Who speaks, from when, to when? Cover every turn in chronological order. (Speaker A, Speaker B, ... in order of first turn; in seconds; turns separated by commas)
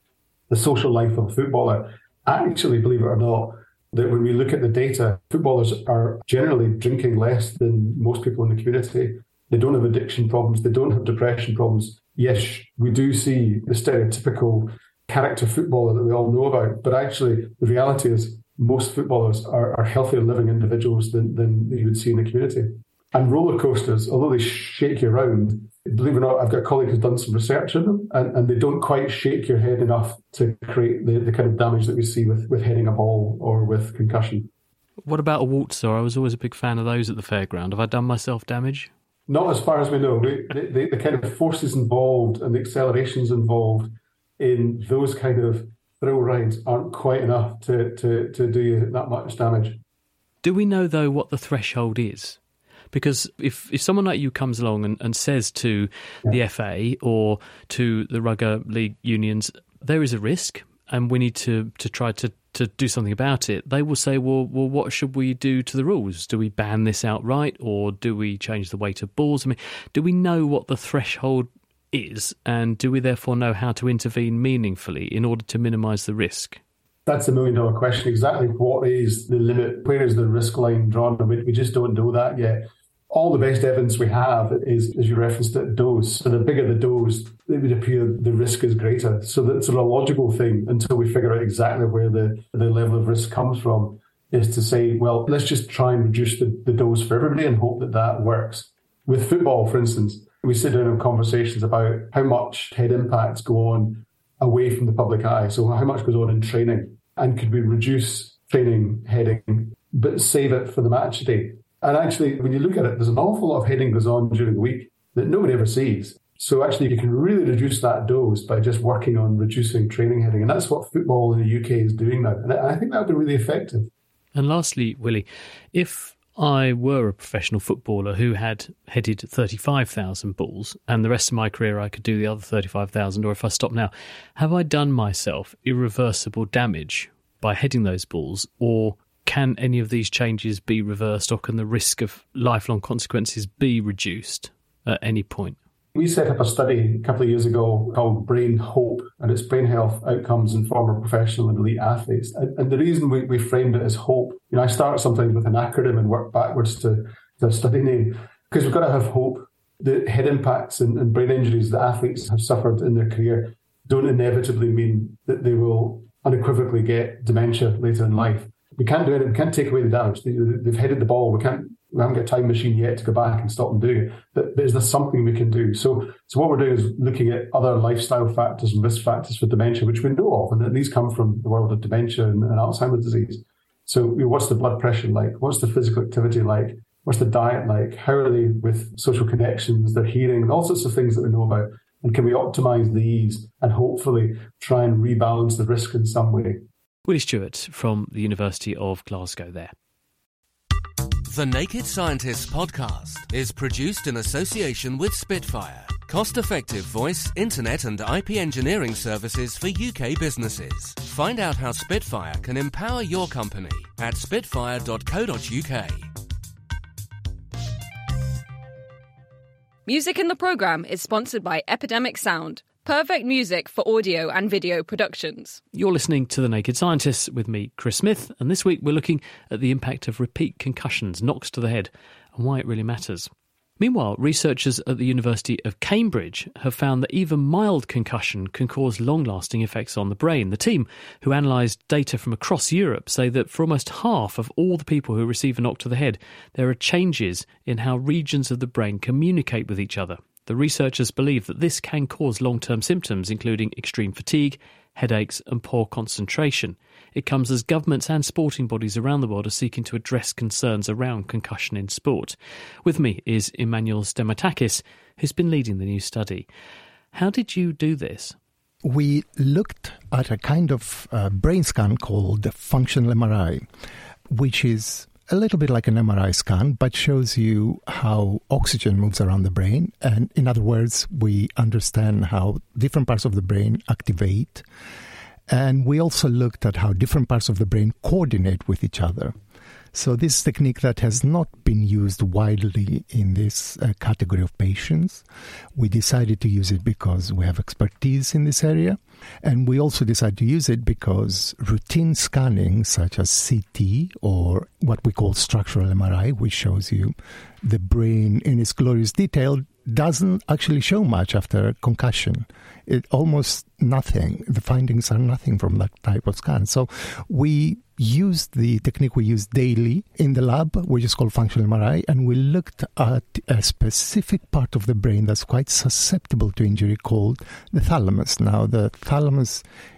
Speaker A: 0.5-34.5, Speaker B: 35.0-38.9, Speaker A: 39.3-49.8, Speaker B: 50.4-52.4, Speaker B: 52.9-76.6, Speaker A: 77.0-123.9, Speaker B: 124.3-145.6, Speaker A: 145.9-196.7, Speaker B: 197.1-199.7, Speaker C: 201.2-216.1, Speaker D: 219.8-225.6, Speaker B: 225.7-266.5, Speaker B: 267.1-268.4, Speaker E: 268.8-273.7, Speaker E: 274.3-284.6, Speaker E: 285.5-289.4, Speaker E: 289.9-295.2, Speaker E: 295.7-329.6